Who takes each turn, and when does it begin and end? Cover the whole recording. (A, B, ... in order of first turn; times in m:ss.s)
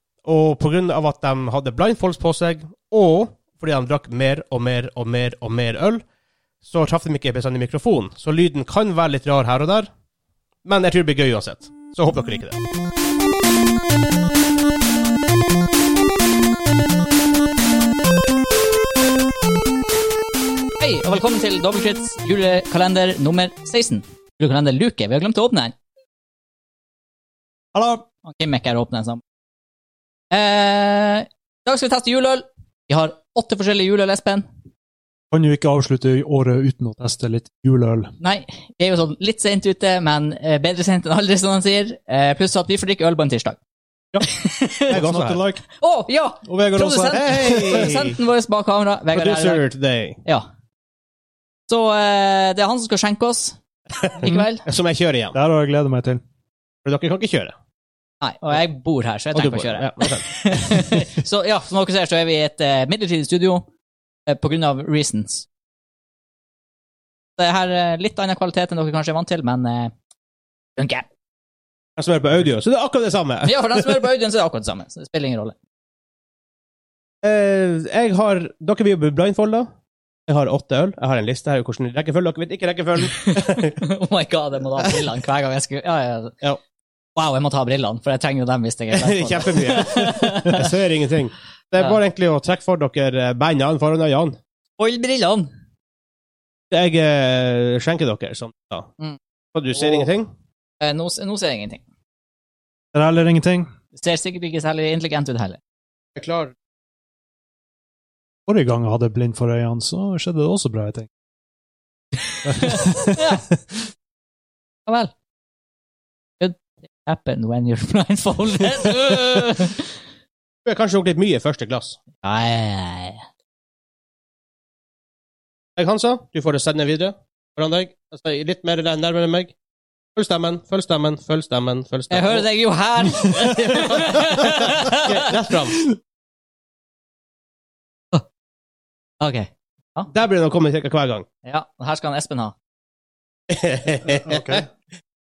0:00.2-0:06.0 A
0:06.6-0:09.9 A
0:10.6-0:12.6 A
0:20.8-0:25.7 B
0:27.7-0:28.0 C
0:28.2-0:29.2 B
0:30.3-0:34.5 B
0:35.3-0:38.1 C
0:38.2-0:43.6 B
0:44.2-0:45.0 B
0:44.9-0:45.4 A
0:44.9-0:45.6 C
0:45.7-0:49.6 B
0:46.4-0:48.0 C
0:47.1-0:48.2 A
0:49.2-0:50.2 A
0:51.7-0:54.6 B
0:54.6-0:55.4 A
0:55.3-0:56.2 C
0:56.8-0:57.5 A
0:58.2-1:03.7 B
0:59.3-1:00.8 A
1:04.3-1:05.4 B
1:07.4-1:09.9 B
1:10.8-1:11.0 B
1:12.0-1:14.0 A
1:13.4-1:15.6 B
1:17.2-1:19.7 A
1:20.3-1:23.8 A
1:23.1-1:26.3 B
1:27.2-1:30.7 B
1:28.9-1:34.4 A
1:34.8-1:35.5 B
1:36.7-1:38.9 A
1:39.5-1:40.3 A
1:40.8-1:41.8 B
1:42.9-1:43.7 C
1:43.9-1:45.6 B
1:46.2-1:46.5 A
1:48.5-1:51.1 C
1:52.2-1:53.4 B
1:52.4-1:53.8 C
1:54.9-1:55.1 B
1:56.4-1:59.9 B
2:00.6-2:02.0 A
2:02.2-2:03.2 B
2:05.8-2:09.5 A
2:10.1-2:12.5 A
2:12.1-2:15.3 B
2:14.9-2:15.8 A
2:19.2-2:20.1 B
2:20.1-2:21.3 A
2:21.4-2:22.5 B
2:23.5-2:24.6 A
2:24.1-2:24.7 C